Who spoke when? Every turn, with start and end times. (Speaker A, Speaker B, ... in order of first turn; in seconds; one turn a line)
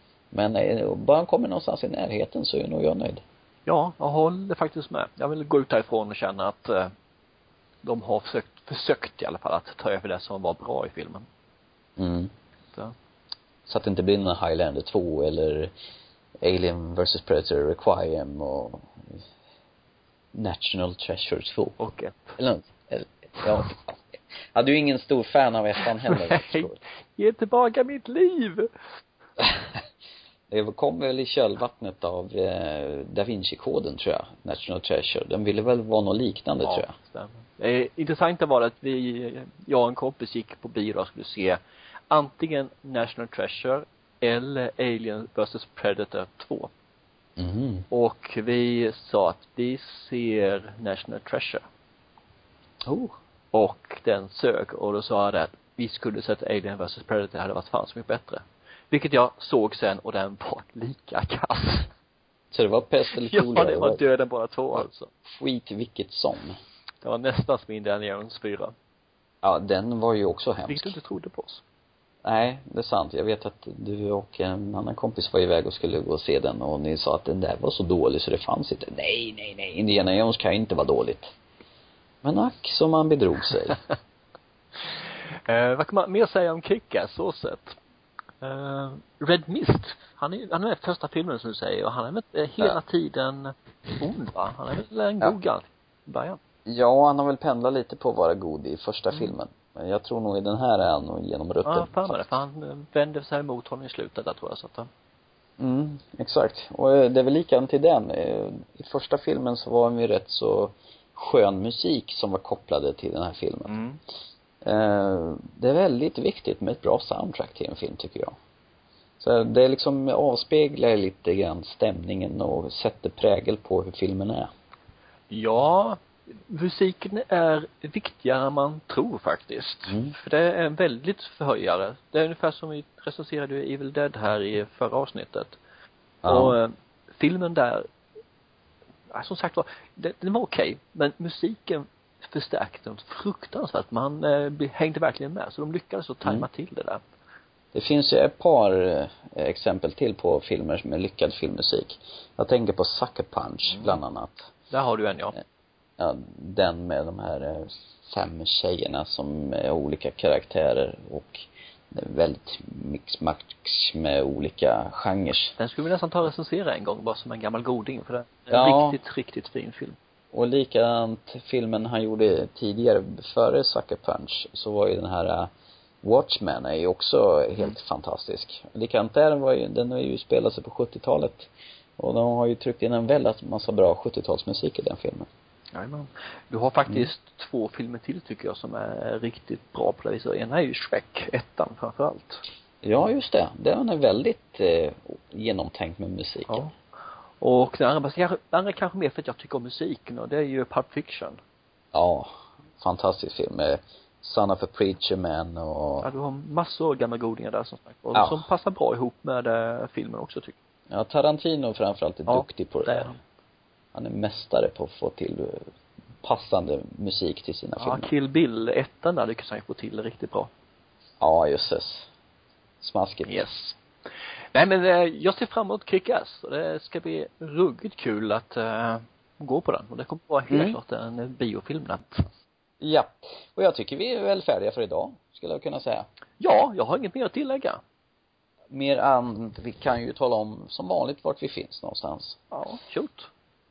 Speaker A: 0.3-3.2
Speaker B: 3.7-6.9
Speaker B: 7.8-11.3
Speaker A: 12.0-12.3
Speaker A: 13.7-15.7
Speaker A: 16.4-19.2
Speaker A: 20.3-21.8
Speaker B: 21.8-22.4
Speaker A: 22.4-24.0
Speaker A: 24.6-26.8
Speaker B: 26.0-28.7
Speaker A: 29.4-29.8
Speaker A: 30.5-36.9
Speaker B: 36.6-41.6
Speaker B: 42.1-46.7
Speaker A: 47.4-47.9
Speaker B: 47.9-51.6
Speaker A: 52.9-53.1
Speaker B: 53.5-61.9
Speaker A: 62.5-64.0
Speaker B: 63.1-65.1
Speaker A: 64.8-66.6
Speaker B: 67.0-68.7
Speaker A: 69.4-70.9
Speaker B: 70.7-71.6
Speaker A: 72.2-81.3
Speaker A: 82.2-83.8
Speaker B: 84.8-87.8
Speaker B: 88.4-96.4
Speaker A: 96.7-102.4
Speaker B: 101.6-104.9
Speaker A: 105.6-113.8
Speaker B: 113.7-114.0
Speaker A: 114.6-118.3
Speaker A: 119.2-124.5
Speaker B: 125.3-135.6
Speaker A: 129.9-130.1
Speaker A: 136.2-136.6
Speaker B: 136.3-137.9
Speaker B: 139.1-147.0
Speaker A: 147.7-154.5
Speaker B: 153.7-154.0
Speaker B: 154.7-155.4
Speaker A: 156.0-165.6
Speaker B: 165.6-170.0
Speaker A: 168.5-169.0
Speaker A: 170.3-175.5
Speaker A: 176.0-185.3
Speaker B: 185.7-192.4
Speaker A: 192.8-196.7
Speaker B: 196.5-196.8
Speaker B: 197.4-201.4
Speaker A: 201.9-206.1
Speaker B: 206.0-210.6
Speaker A: 208.1-208.4
Speaker A: 210.9-213.1
Speaker B: 212.3-213.2
Speaker A: 213.9-215.7
Speaker A: 216.2-218.1
Speaker B: 217.8-220.5
Speaker A: 221.2-222.1
Speaker A: 222.8-223.4
Speaker B: 223.3-223.8
Speaker B: 224.5-232.3
Speaker A: 230.5-230.8
Speaker A: 232.8-236.1
Speaker B: 236.4-237.8
Speaker A: 238.7-242.4
Speaker B: 242.5-243.3